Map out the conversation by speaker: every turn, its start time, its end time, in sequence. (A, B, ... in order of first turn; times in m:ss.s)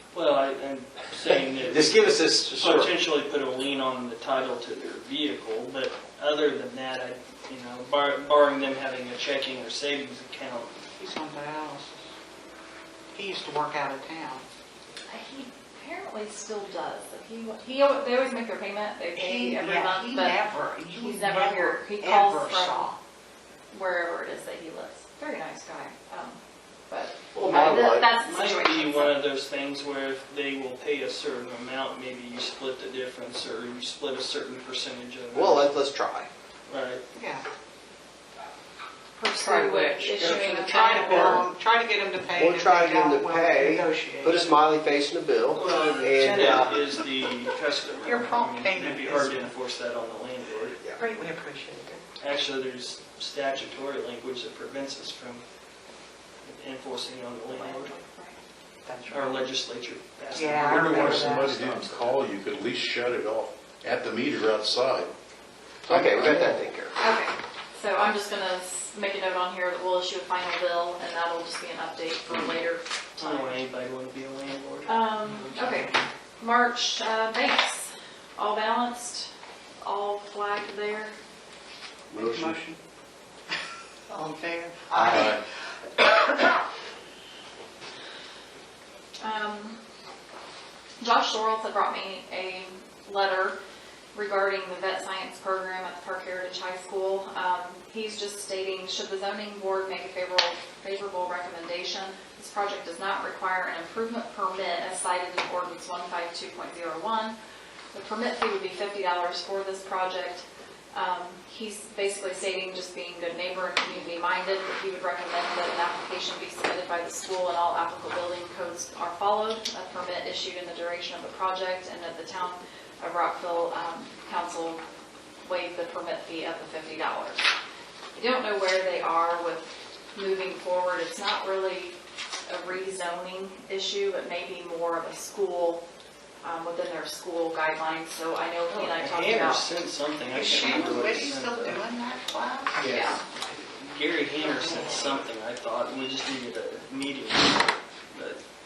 0:00.1-0:10.7 A
0:01.3-0:02.9 B
0:11.0-0:12.1 C
0:13.1-0:14.4 C
0:15.1-0:22.9 D
0:19.1-0:23.0 C
0:23.7-0:29.1 D
0:27.3-0:28.0 B
0:27.6-0:35.7 A
0:35.3-0:36.3 B
0:36.7-0:37.0 A
0:37.1-0:37.4 C
0:39.2-0:41.5 D
0:39.3-0:44.6 C
0:42.3-0:46.8 B
0:45.5-0:50.8 A
0:46.2-0:46.8 C
0:48.0-0:49.4 C
0:51.0-0:52.0 C
0:52.2-0:55.4 A
0:56.4-0:57.9 A
0:57.5-0:58.4 D
0:58.8-0:59.4 C
0:59.1-1:02.1 A
1:00.3-1:01.7 C
1:00.5-1:05.1 E
1:05.9-1:06.9 B
1:05.9-1:06.6 E
1:07.0-1:13.6 D
1:13.2-1:15.6 A
1:14.8-1:19.3 D
1:19.8-1:21.1 D
1:22.1-1:22.6 B
1:22.2-1:22.8 C
1:24.1-1:25.4 C
1:24.9-1:25.2 B
1:25.0-1:25.4 E
1:29.2-1:29.8 D
1:31.0-1:33.6 D
1:34.1-1:47.4 D
1:47.9-2:04.8 D
2:05.4-2:07.4 D
2:08.2-2:12.0 D
2:12.5-2:15.8 D
2:16.4-2:19.7 D
2:18.7-2:21.8 A
2:20.3-2:22.9 C
2:22.8-2:28.4 A
2:22.9-2:23.2 D